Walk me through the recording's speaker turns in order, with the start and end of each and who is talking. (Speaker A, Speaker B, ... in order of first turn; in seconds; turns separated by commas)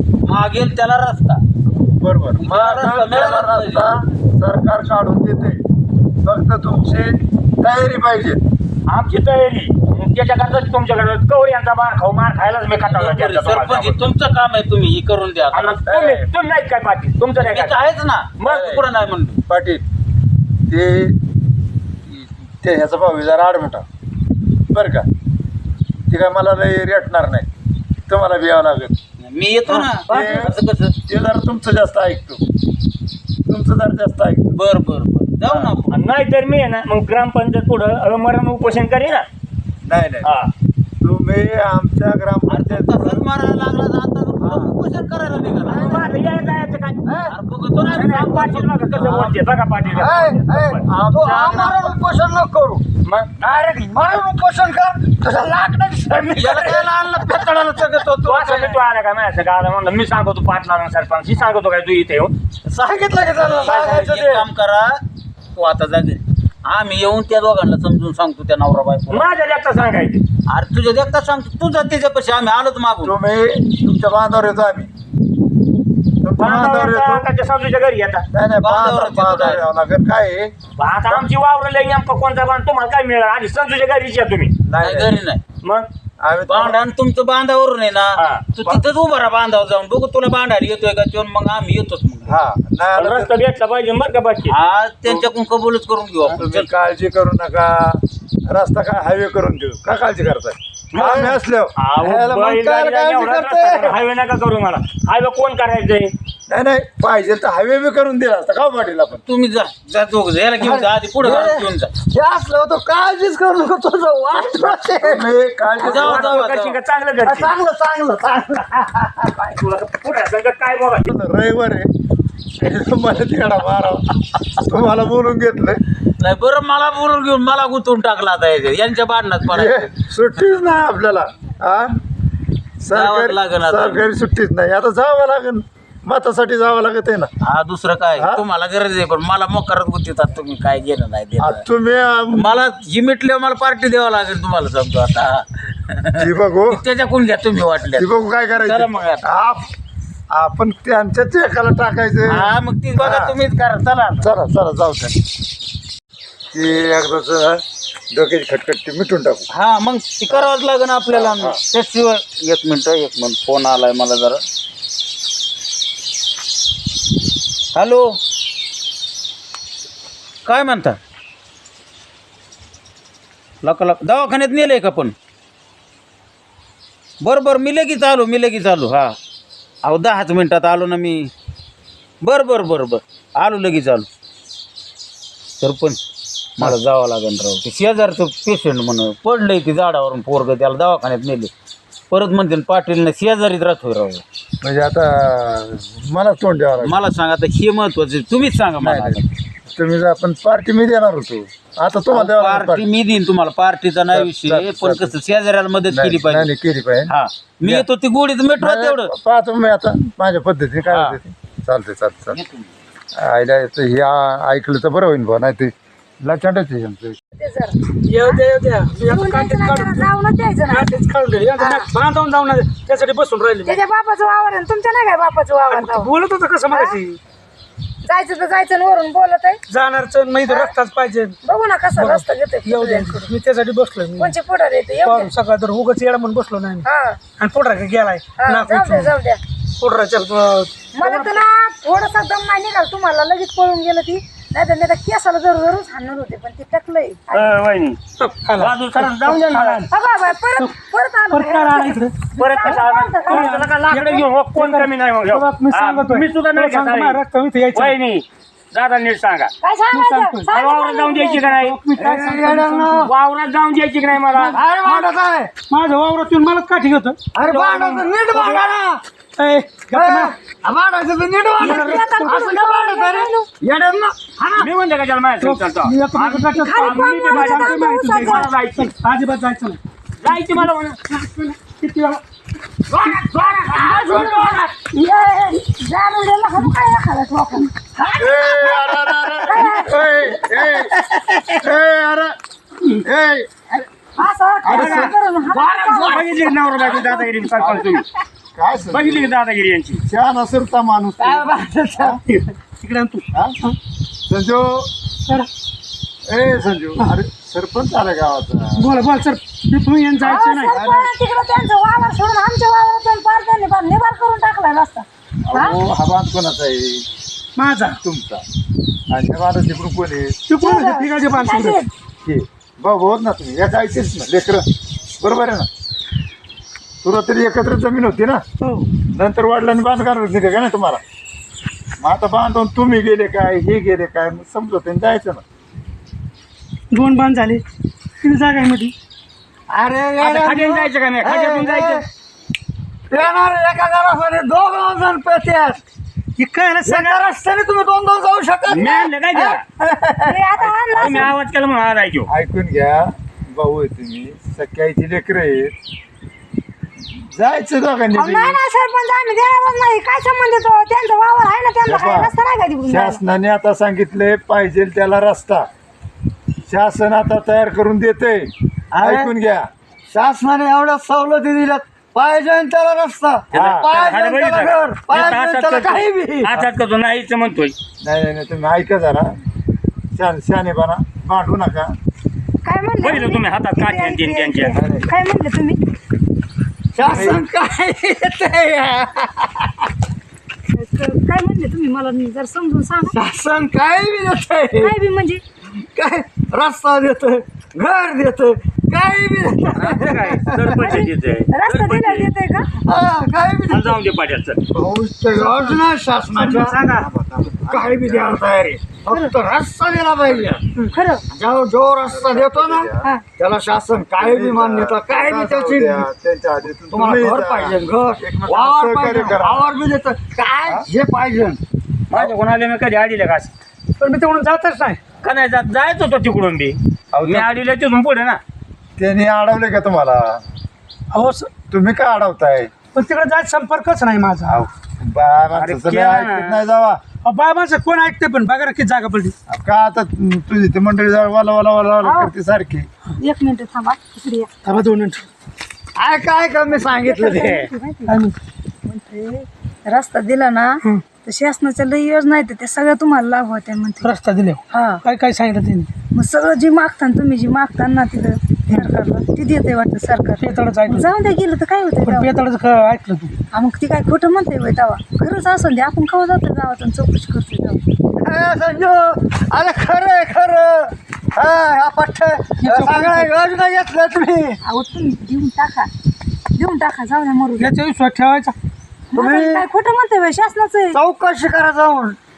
Speaker A: 0.2-1.4, Speaker B: 2.0-5.6, Speaker A: 2.4-3.8, Speaker B: 6.2-8.4, Speaker C: 8.9-14.1, Speaker A: 12.9-15.7, Speaker C: 15.5-17.8, Speaker B: 15.8-16.3, Speaker A: 17.4-19.4, Speaker C: 18.4-18.8, Speaker B: 18.4-18.9, Speaker B: 19.5-19.8, Speaker B: 20.7-21.1, Speaker B: 22.1-23.8, Speaker B: 24.7-25.1, Speaker B: 26.1-27.5, Speaker B: 28.1-28.9, Speaker A: 29.2-30.9, Speaker B: 29.7-32.4, Speaker B: 33.5-34.6, Speaker A: 34.5-35.9, Speaker B: 35.5-35.8, Speaker C: 35.9-39.3, Speaker B: 39.9-40.3, Speaker C: 40.2-40.5, Speaker B: 41.0-43.3, Speaker A: 42.5-45.7, Speaker B: 44.4-44.7, Speaker C: 45.6-47.0, Speaker B: 45.7-46.1, Speaker D: 45.8-46.1, Speaker D: 47.0-47.4, Speaker A: 47.4-48.8, Speaker C: 47.8-51.6, Speaker D: 49.9-52.8, Speaker B: 50.9-52.0, Speaker D: 53.4-58.0, Speaker A: 56.4-57.1, Speaker A: 57.7-58.6, Speaker C: 58.2-62.3, Speaker D: 62.7-63.7, Speaker C: 63.5-64.1, Speaker B: 63.6-64.5, Speaker A: 63.9-65.0, Speaker A: 65.5-69.2, Speaker C: 69.1-70.2, Speaker A: 70.5-73.1, Speaker B: 73.0-74.9, Speaker B: 76.2-77.2, Speaker C: 76.4-78.3, Speaker B: 78.3-80.5, Speaker A: 78.6-79.6, Speaker C: 80.8-84.5, Speaker B: 84.7-85.2, Speaker A: 84.8-85.4, Speaker C: 85.6-85.9, Speaker B: 86.2-86.8, Speaker A: 86.5-92.3, Speaker C: 88.2-88.5, Speaker B: 92.2-93.3, Speaker C: 93.0-95.3, Speaker A: 94.5-96.7, Speaker B: 96.3-101.8, Speaker C: 100.9-101.2, Speaker C: 101.8-106.1, Speaker D: 102.0-104.0, Speaker B: 106.5-109.2, Speaker A: 109.3-111.9, Speaker D: 110.6-115.2, Speaker B: 114.4-116.5, Speaker C: 115.8-117.5, Speaker A: 115.9-116.7, Speaker D: 117.2-119.3, Speaker C: 119.3-121.1, Speaker B: 121.0-121.9, Speaker B: 122.6-125.8, Speaker A: 126.2-129.6, Speaker B: 129.5-132.0, Speaker B: 132.8-137.3, Speaker A: 133.0-134.0, Speaker A: 137.4-141.6, Speaker B: 138.2-138.4, Speaker B: 141.4-142.6, Speaker A: 142.4-146.1, Speaker B: 146.2-146.8, Speaker A: 146.8-148.0, Speaker B: 147.9-149.7, Speaker A: 148.6-149.2, Speaker B: 150.3-153.4, Speaker A: 152.4-154.2, Speaker B: 154.2-155.2, Speaker B: 156.5-159.5, Speaker A: 159.6-164.4, Speaker B: 161.1-161.6, Speaker A: 167.7-168.0, Speaker A: 170.4-171.0, Speaker A: 173.6-175.1, Speaker A: 177.2-179.1, Speaker A: 179.8-181.3, Speaker A: 182.2-184.1, Speaker A: 185.6-186.0, Speaker A: 186.8-191.5, Speaker A: 192.1-194.2, Speaker B: 194.6-197.0, Speaker A: 196.9-199.2, Speaker B: 198.8-199.2, Speaker B: 199.8-202.9, Speaker A: 202.2-206.4, Speaker B: 204.1-205.1, Speaker B: 205.9-207.9, Speaker A: 207.1-209.1, Speaker B: 208.6-212.4, Speaker A: 212.3-212.7, Speaker B: 213.2-217.2, Speaker E: 217.4-218.4, Speaker F: 218.1-220.1, Speaker E: 219.0-220.9, Speaker F: 220.7-223.8, Speaker E: 221.6-221.9, Speaker E: 223.7-226.1, Speaker F: 225.7-227.2, Speaker E: 226.7-227.0, Speaker E: 228.0-229.6, Speaker F: 229.7-231.4, Speaker E: 230.5-230.7, Speaker E: 231.4-233.3, Speaker F: 231.9-234.3, Speaker E: 234.2-235.3, Speaker F: 235.0-239.1, Speaker E: 236.8-237.2, Speaker E: 238.4-239.4, Speaker F: 239.8-241.4, Speaker E: 240.9-247.5, Speaker C: 247.3-248.0, Speaker F: 248.2-249.9, Speaker C: 248.6-249.8, Speaker E: 249.9-253.6, Speaker F: 251.3-252.7, Speaker C: 252.4-257.2, Speaker F: 253.3-257.9, Speaker C: 257.7-259.5, Speaker E: 259.6-261.5, Speaker F: 259.9-260.5, Speaker C: 260.5-261.8, Speaker F: 261.4-263.1, Speaker D: 262.0-263.1, Speaker C: 263.0-264.6, Speaker D: 264.5-265.5, Speaker F: 265.7-268.6, Speaker D: 267.3-269.0, Speaker F: 269.4-270.3, Speaker D: 269.9-274.7, Speaker E: 271.6-273.5, Speaker F: 271.6-272.3, Speaker C: 274.6-278.9, Speaker F: 275.4-279.8, Speaker E: 276.6-278.5, Speaker C: 280.2-281.0, Speaker F: 281.1-282.2, Speaker D: 282.9-284.7, Speaker E: 283.7-290.1, Speaker D: 288.0-288.7, Speaker B: 288.1-290.9, Speaker B: 291.6-292.4, Speaker B: 292.9-293.5, Speaker E: 294.2-296.2, Speaker B: 294.6-295.1, Speaker C: 294.6-295.1, Speaker D: 295.5-297.8, Speaker C: 296.1-298.0, Speaker B: 298.5-299.3, Speaker C: 298.9-300.0, Speaker B: 300.1-302.2, Speaker D: 301.2-302.2, Speaker F: 302.2-303.8, Speaker B: 303.3-303.6, Speaker B: 304.3-304.9, Speaker B: 306.3-308.9, Speaker F: 308.7-310.8, Speaker E: 310.2-315.7, Speaker B: 310.7-311.1, Speaker B: 315.5-317.1, Speaker F: 317.6-318.0, Speaker B: 318.0-318.4, Speaker B: 319.1-320.4, Speaker F: 320.5-321.8, Speaker E: 320.6-321.9, Speaker B: 322.2-324.6, Speaker B: 325.2-325.7, Speaker B: 327.0-328.4, Speaker F: 328.6-328.9, Speaker B: 329.1-331.0, Speaker B: 332.0-335.4, Speaker F: 336.9-337.6, Speaker F: 338.2-338.9, Speaker D: 339.7-342.0, Speaker C: 340.2-342.0, Speaker D: 343.1-345.8, Speaker F: 346.4-347.2, Speaker D: 346.8-350.4, Speaker C: 348.7-349.6, Speaker E: 350.2-351.3, Speaker B: 350.5-351.4, Speaker C: 350.9-352.3, Speaker B: 352.3-355.8, Speaker B: 357.3-358.6, Speaker E: 358.1-363.2, Speaker B: 361.9-362.3, Speaker B: 362.9-365.7, Speaker B: 366.7-369.6, Speaker D: 368.9-369.3, Speaker D: 370.1-376.6, Speaker B: 373.5-373.9, Speaker C: 373.5-377.7, Speaker B: 378.0-379.3, Speaker B: 380.1-381.9, Speaker E: 382.6-385.8, Speaker C: 383.0-384.8, Speaker B: 384.7-385.1, Speaker D: 386.9-389.7, Speaker B: 387.0-387.4, Speaker E: 390.7-393.1, Speaker D: 393.1-394.9, Speaker E: 394.8-395.4, Speaker D: 395.7-400.9, Speaker C: 399.7-402.3, Speaker E: 400.8-402.7, Speaker D: 402.8-404.0, Speaker C: 403.7-404.6, Speaker D: 404.7-406.8, Speaker F: 405.3-405.8, Speaker F: 406.3-407.1, Speaker B: 406.8-408.4, Speaker D: 407.6-416.1, Speaker B: 410.2-410.6, Speaker E: 410.9-411.2, Speaker B: 412.1-413.1, Speaker B: 414.2-419.6, Speaker D: 416.9-421.6, Speaker C: 422.1-423.5, Speaker F: 424.0-425.0, Speaker C: 425.2-428.4, Speaker B: 427.1-427.5, Speaker B: 429.0-430.4, Speaker F: 431.1-431.5, Speaker B: 431.7-432.7, Speaker F: 432.9-434.6, Speaker B: 434.5-437.0, Speaker C: 435.6-436.6, Speaker F: 437.2-439.3, Speaker B: 439.5-442.9, Speaker E: 442.0-442.3, Speaker E: 443.2-444.5, Speaker F: 444.6-445.3, Speaker D: 445.9-447.7, Speaker E: 446.7-448.2, Speaker F: 448.1-448.4, Speaker E: 448.8-454.1, Speaker F: 454.0-455.9, Speaker E: 454.7-455.0, Speaker E: 456.1-462.4, Speaker F: 460.4-461.1, Speaker F: 462.0-463.3, Speaker E: 463.5-467.8, Speaker D: 468.2-474.6, Speaker F: 472.6-473.3, Speaker E: 474.6-475.9, Speaker E: 476.5-477.7, Speaker F: 477.6-478.5, Speaker E: 479.1-481.0, Speaker D: 479.1-479.6, Speaker D: 480.9-482.2